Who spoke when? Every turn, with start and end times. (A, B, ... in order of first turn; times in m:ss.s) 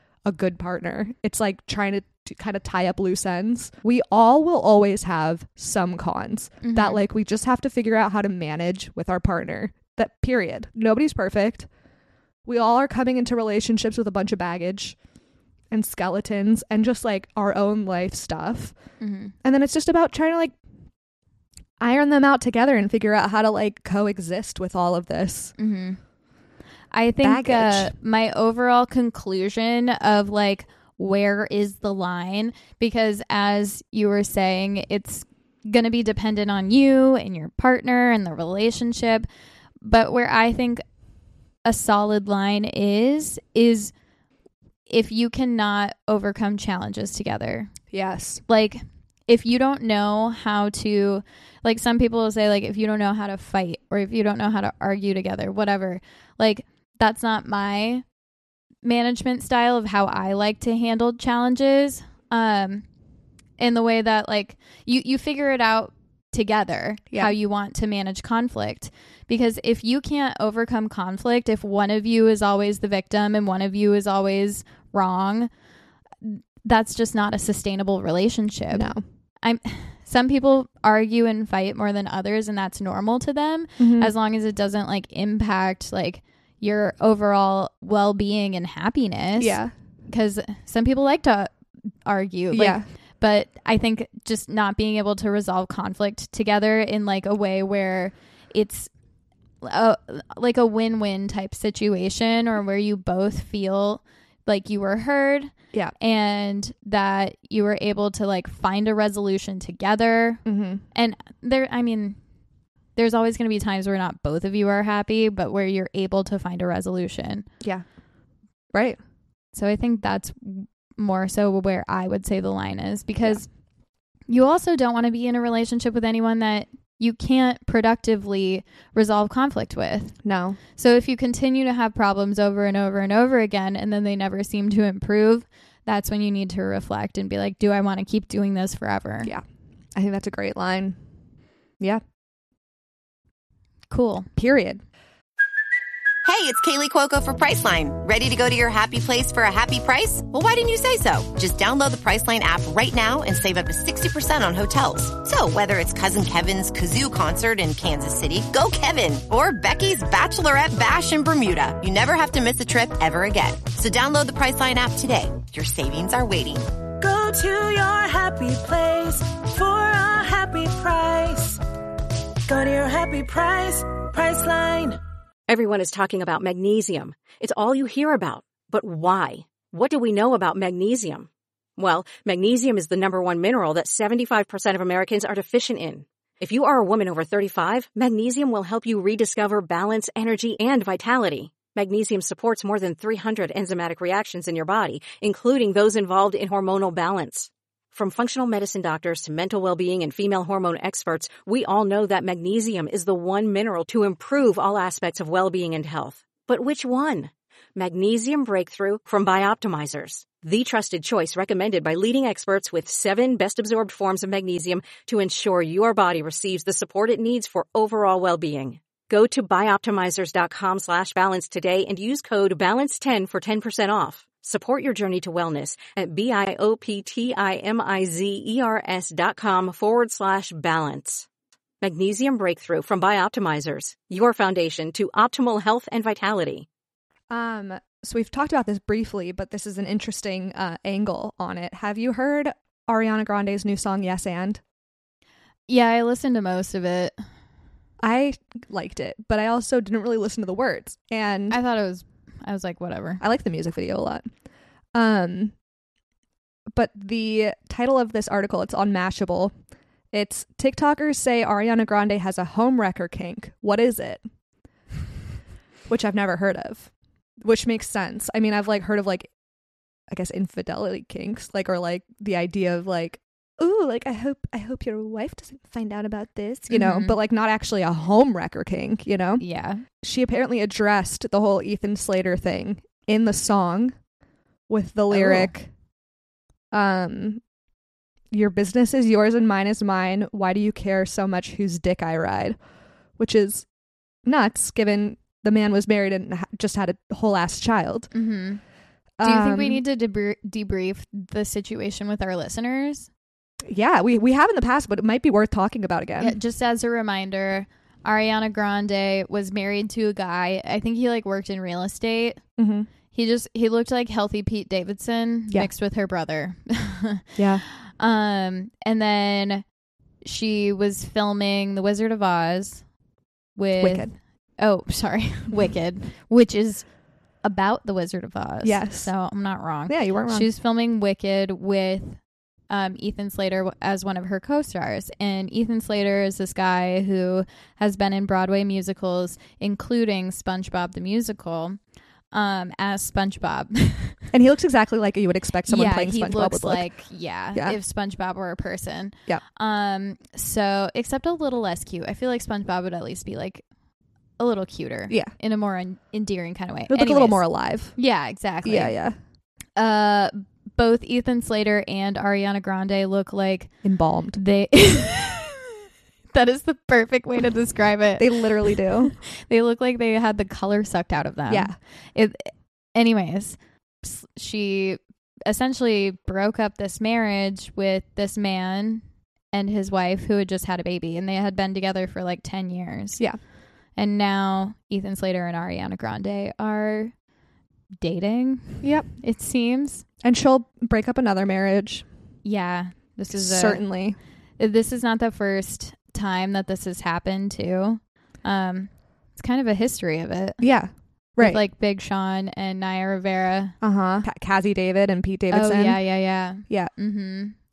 0:00.2-0:11.7 A
0:06.6-0:07.0 B
0:12.4-0:15.0 A
0:15.7-0:18.7 A
0:19.0-0:19.3 B
0:19.4-0:20.5 A
0:21.8-0:25.5 A
0:25.6-0:26.0 B
0:26.9-0:39.2 B
0:27.2-0:27.9 A
0:39.8-0:40.8 B
0:41.6-0:43.9 B
0:44.9-0:47.7 B
0:47.9-0:48.4 A
0:48.5-0:58.0 B
0:58.8-1:02.8 B
1:03.6-1:15.5 B
1:16.2-1:18.9 B
1:18.7-1:19.0 A
1:19.4-1:31.5 B
1:23.8-1:24.1 A
1:29.4-1:29.7 A
1:32.0-1:38.9 B
1:32.5-1:32.8 A
1:39.6-1:50.4 B
1:50.4-1:50.8 A
1:50.9-1:52.2 B
1:53.0-1:57.4 B
1:58.7-1:59.0 A
1:59.5-2:03.5 B
2:04.3-2:10.2 B
2:10.2-2:10.6 A
2:10.8-2:19.3 B
2:19.9-2:21.0 A
2:23.9-2:24.3 B
2:24.4-2:24.8 A
2:26.2-2:46.7 C
2:47.0-2:51.6 D
2:52.5-2:55.0 D
2:55.5-3:51.2 E
3:51.8-3:56.6 E
3:57.3-4:04.6 A
4:05.7-4:07.1 B
4:08.0-4:11.6 A
4:11.5-4:13.2 B
4:13.2-4:14.3 A
4:14.9-4:15.5 A
4:16.7-4:19.5 A
4:20.1-4:24.2 A
4:25.9-4:26.9 A
4:27.4-4:29.3 A
4:30.1-4:39.4 A
4:36.7-4:37.2 B
4:39.4-4:39.8 B
4:40.0-4:43.9 A
4:44.7-4:45.7 A
4:45.1-4:45.5 B
4:46.7-4:47.4 A
4:48.3-4:52.6 A
4:53.2-4:53.6 A
4:54.2-4:58.1 A
4:58.1-4:58.6 B
4:59.2-4:59.8 A
4:59.2-5:03.1 B
5:03.6-5:06.4 A
5:06.2-5:12.4 B
5:12.6-5:12.9 A
5:13.1-5:19.6 B
5:17.4-5:17.6 A
5:20.2-5:22.8 B
5:23.6-5:26.8 B
5:23.8-5:24.1 A
5:27.4-5:32.2 B
5:28.6-5:29.1 A
5:29.9-5:30.5 A
5:32.7-5:41.8 B
5:42.3-5:44.2 B
5:44.3-5:46.9 A
5:45.7-5:53.6 B
5:54.4-5:57.4 B
5:56.9-5:58.0 A
5:58.0-5:59.0 B
5:58.6-5:59.2 A
5:59.8-6:03.7 B
6:03.8-6:04.4 A
6:04.4-6:05.8 B
6:06.3-6:23.2 B
6:08.2-6:09.1 A
6:11.5-6:11.8 A
6:24.0-6:27.1 B
6:28.0-6:30.0 B
6:28.8-6:29.1 A
6:30.2-6:32.0 A
6:32.4-6:33.8 B
6:33.3-6:34.2 A
6:34.6-6:40.6 B
6:40.6-6:41.6 A
6:41.4-6:43.7 B
6:43.8-6:46.0 A
6:45.5-6:47.5 B